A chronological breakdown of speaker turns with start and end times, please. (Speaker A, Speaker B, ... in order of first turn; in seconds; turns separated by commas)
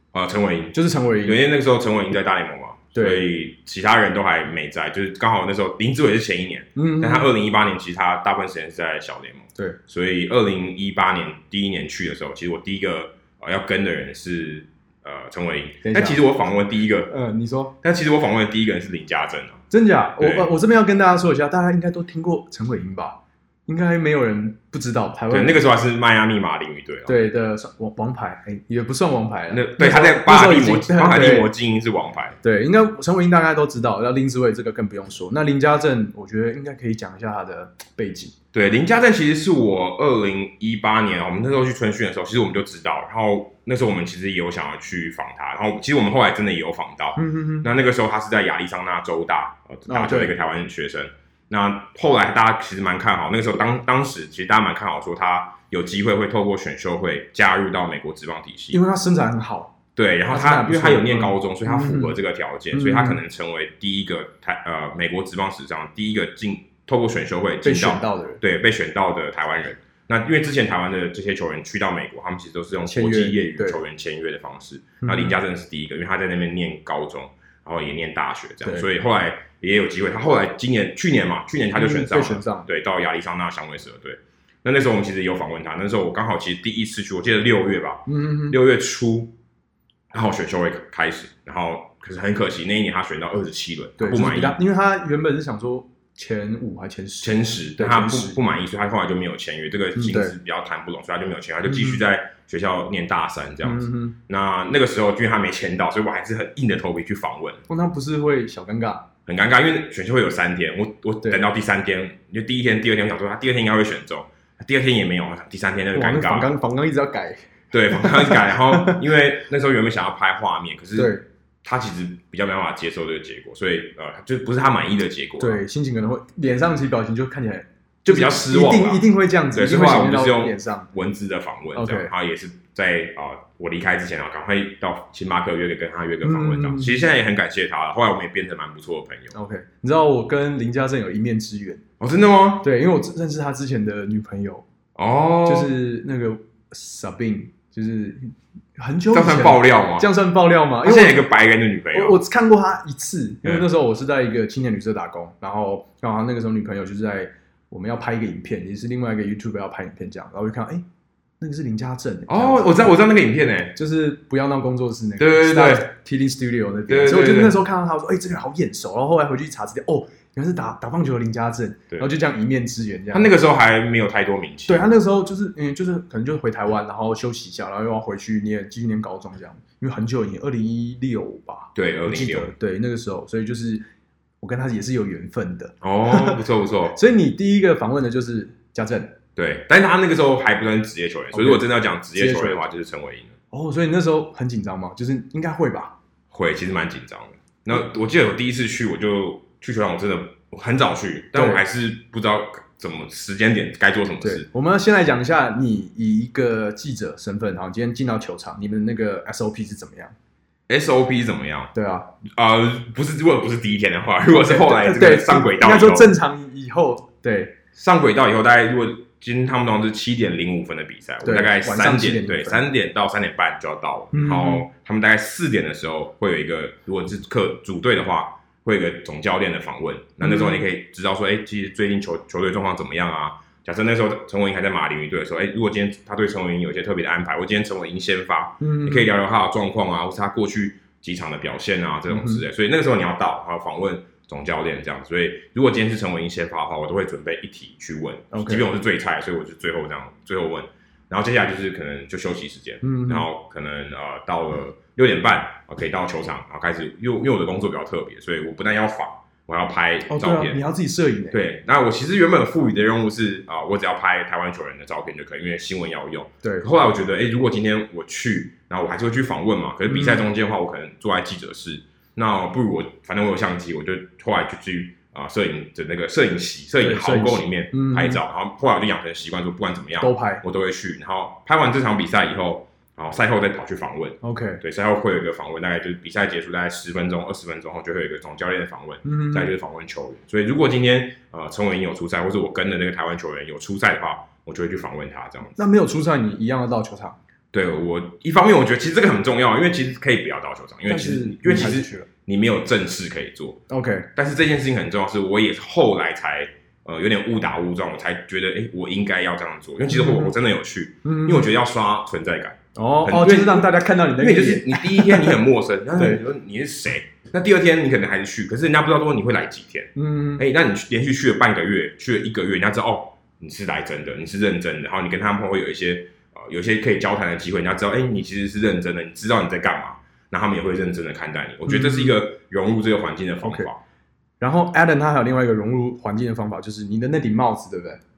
Speaker A: 0.1-17.1, Speaker B: 0.7-1.4, Speaker B: 2.9-3.3, Speaker B: 6.8-7.3, Speaker B: 15.8-16.2, Speaker B: 17.1-17.7, Speaker A: 17.8-19.6, Speaker B: 19.7-25.6, Speaker A: 20.2-20.5, Speaker A: 25.3-27.1, Speaker B: 27.1-31.5, Speaker A: 29.5-32.4, Speaker B: 32.4-38.3, Speaker A: 38.5-58.8, Speaker B: 47.1-47.7, Speaker B: 49.9-50.3, Speaker B: 58.7-59.7, Speaker A: 60.0-89.3, Speaker B: 60.3-62.2, Speaker B: 62.7-63.2, Speaker B: 67.6-68.4, Speaker B: 72.8-73.8, Speaker B: 75.0-75.4, Speaker B: 81.7-82.7, Speaker B: 88.1-88.6, Speaker A: 90.1-94.6, Speaker B: 94.0-98.4, Speaker A: 97.2-107.6, Speaker B: 100.0-100.3, Speaker B: 101.6-102.0, Speaker B: 103.6-104.2, Speaker B: 107.7-109.1, Speaker A: 109.2-116.5, Speaker B: 115.9-119.0, Speaker A: 117.7-121.1, Speaker B: 121.0-121.2, Speaker A: 121.6-125.6, Speaker B: 125.4-130.9, Speaker A: 128.0-139.3, Speaker B: 131.8-132.1, Speaker B: 136.2-137.1, Speaker B: 139.3-141.8, Speaker A: 142.0-142.7, Speaker B: 142.6-144.6, Speaker A: 144.9-145.7, Speaker B: 145.4-151.3, Speaker A: 149.1-150.1, Speaker A: 150.8-152.2, Speaker B: 151.9-160.8, Speaker B: 161.4-162.9, Speaker A: 162.3-163.7, Speaker B: 163.8-173.3, Speaker A: 165.2-165.9, Speaker A: 166.9-167.6, Speaker A: 173.1-174.9, Speaker B: 174.7-183.8, Speaker A: 181.8-182.5, Speaker B: 184.4-186.4, Speaker A: 185.8-186.9, Speaker B: 186.9-189.2, Speaker A: 189.3-193.3, Speaker B: 191.3-192.6, Speaker B: 193.5-195.9, Speaker A: 196.3-204.5, Speaker B: 201.3-201.6, Speaker B: 204.2-210.1, Speaker A: 210.7-211.7, Speaker B: 211.7-212.1, Speaker A: 212.3-216.1, Speaker B: 214.3-217.6, Speaker A: 217.7-260.6, Speaker B: 221.2-222.6, Speaker B: 224.1-224.7, Speaker B: 230.2-230.7, Speaker B: 238.6-239.1, Speaker B: 242.1-242.4, Speaker B: 248.3-248.7, Speaker B: 252.8-253.3, Speaker B: 260.1-261.4, Speaker A: 261.3-295.6, Speaker B: 266.4-266.7, Speaker B: 269.9-270.2, Speaker B: 276.8-278.2, Speaker B: 280.0-280.4, Speaker B: 284.2-284.6, Speaker B: 289.0-289.5, Speaker B: 295.6-297.2, Speaker A: 297.5-303.6, Speaker B: 300.9-302.1, Speaker B: 303.7-304.1, Speaker A: 304.1-333.8, Speaker B: 309.9-310.3, Speaker B: 311.0-311.5, Speaker B: 312.7-315.4, Speaker B: 315.9-316.2, Speaker B: 319.9-320.4, Speaker B: 331.6-332.2, Speaker B: 333.4-333.7, Speaker B: 334.4-338.0